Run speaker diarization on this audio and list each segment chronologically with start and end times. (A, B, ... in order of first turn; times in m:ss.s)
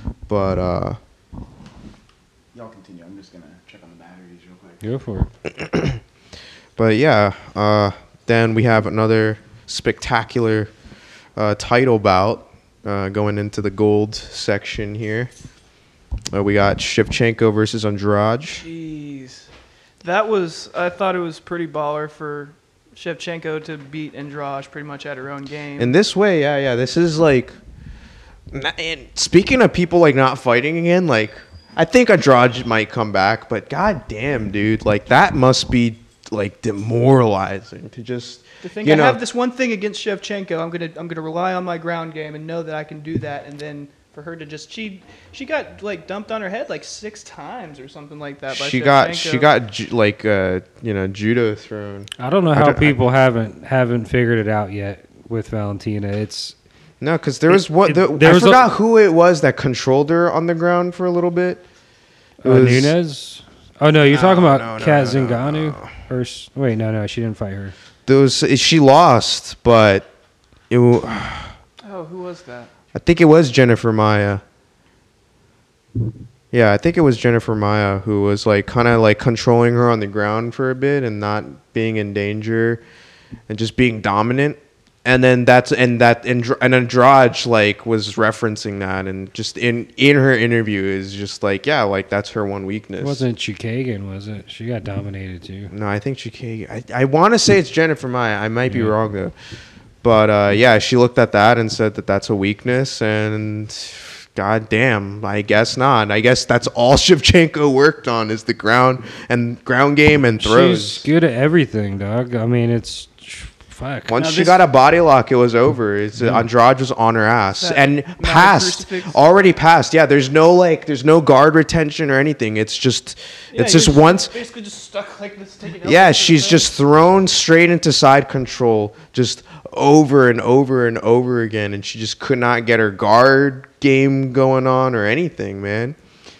0:00.3-0:01.0 A
0:02.5-0:04.8 B
0:04.8-0:05.3 C
0:05.4-0:06.0 A
0:06.8-0:10.7 A
0:11.4-0:15.3 A
0:16.3-0:18.6 A
0:18.6-0:19.5 D
0:20.0-0:26.0 D
0:25.8-0:27.6 A
0:28.5-0:39.2 A
0:38.6-0:49.5 D
0:48.5-0:53.0 A
0:52.2-0:56.6 C
0:57.0-1:01.6 A
0:57.5-0:58.7 C
1:02.4-1:07.8 C
1:02.4-1:03.0 A
1:04.1-1:05.9 A
1:08.1-1:10.1 A
1:10.7-1:11.5 A
1:11.8-1:12.7 D
1:12.9-1:14.4 A
1:16.5-1:22.8 A
1:23.5-1:33.2 A
1:33.0-1:35.7 C
1:35.7-1:39.3 A
1:38.7-1:38.9 C
1:40.0-1:51.1 A
1:50.4-1:54.2 C
1:54.1-2:04.3 A
1:54.2-1:54.6 B
1:57.6-1:59.2 D
2:03.5-2:06.7 D
2:05.8-2:16.0 A